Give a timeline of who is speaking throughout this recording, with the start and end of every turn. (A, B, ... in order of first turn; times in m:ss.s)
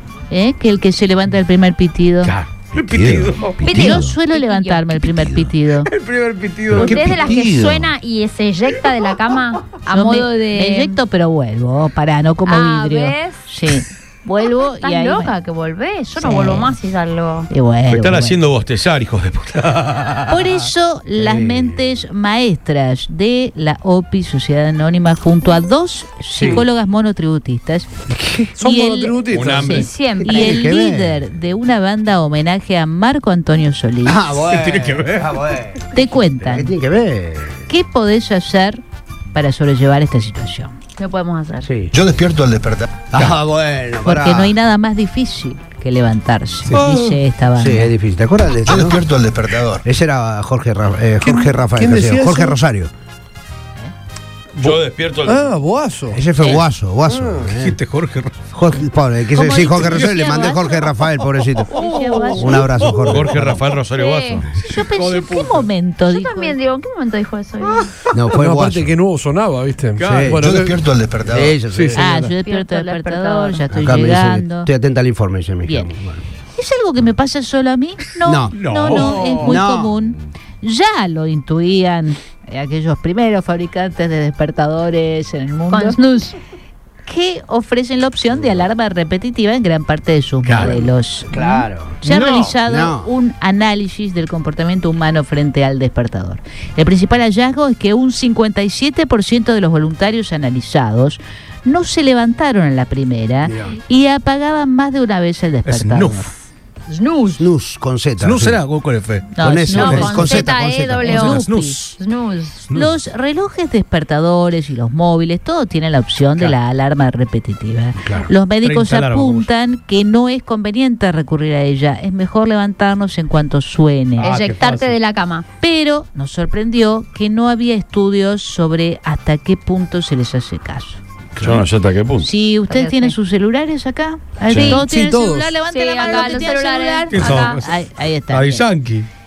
0:00.3-0:02.4 A
0:02.3-0:03.6 B
0:02.7-0:04.2 C
0:03.6-0:05.1 D
0:03.7-0:05.9 A
0:05.2-0:05.5 C
0:05.9-0:06.9 B
0:06.7-0:07.9 C
0:06.7-0:11.0 D
0:09.9-0:15.3 A
0:12.5-0:13.4 D
0:14.6-0:17.5 D
0:16.2-0:16.8 A
0:17.5-0:18.4 A
0:17.9-0:20.2 C
0:20.3-0:27.9 A
0:21.2-0:21.8 E
0:26.3-0:26.7 E
0:28.1-0:28.6 E
0:28.6-0:29.9 F
0:28.6-0:29.2 A
0:29.3-0:29.9 C
0:29.6-0:30.7 D
0:30.2-0:31.3 E
0:30.2-0:34.3 A
0:34.0-0:37.7 E
0:34.6-0:35.2 B
0:35.9-0:36.7 A
0:37.7-0:38.8 A
0:39.3-0:40.7 A
0:41.0-0:41.7 D
0:41.6-0:42.0 E
0:41.9-0:42.9 G
0:43.1-0:44.6 E
0:44.0-0:47.9 A
0:46.7-0:47.0 F
0:47.6-0:49.0 E
0:48.8-0:49.8 G
0:49.8-0:52.9 E
0:51.2-0:52.6 F
0:54.6-0:55.4 C
0:55.2-0:56.2 F
0:56.1-0:57.8 E
0:57.1-0:57.5 F
0:57.6-0:58.3 B
0:58.5-1:03.6 E
0:59.4-1:00.6 A
0:59.5-1:00.6 D
1:01.7-1:02.7 A
1:02.1-1:02.4 D
1:03.0-1:04.5 C
1:03.9-1:04.5 D
1:04.6-1:06.6 A
1:05.0-1:05.7 B
1:06.1-1:07.9 D
1:08.1-1:08.9 E
1:08.3-1:10.9 F
1:10.1-1:10.6 E
1:10.6-1:11.4 G
1:11.3-1:12.1 E
1:11.7-1:12.3 F
1:12.0-1:14.7 A
1:12.4-1:13.6 D
1:13.7-1:16.2 E
1:16.5-1:26.0 A
1:18.2-1:20.0 E
1:18.6-1:19.5 B
1:25.7-1:26.4 D
1:27.1-1:46.3 A
1:28.4-1:28.6 E
1:30.5-1:30.7 B
1:30.6-1:33.1 E
1:43.4-1:43.8 E
1:45.7-1:46.3 B
1:46.9-1:47.4 D
1:47.4-1:48.6 E
1:48.2-1:49.2 B
1:49.4-1:50.5 A
1:49.4-1:51.4 E
1:49.7-1:52.6 D
1:51.0-1:51.8 A
1:51.4-1:52.0 B
1:52.7-2:04.4 A
1:58.0-1:58.3 E
1:58.6-1:59.5 B
2:04.2-2:05.4 D
2:04.2-2:04.9 B
2:05.6-2:11.0 A
2:11.4-2:11.7 E
2:11.4-2:12.3 C
2:12.2-2:18.6 A
2:12.7-2:13.2 D
2:14.5-2:14.8 D
2:14.5-2:14.9 C
2:14.9-2:15.5 F
2:15.7-2:17.6 D
2:17.1-2:17.7 B
2:18.3-2:19.1 B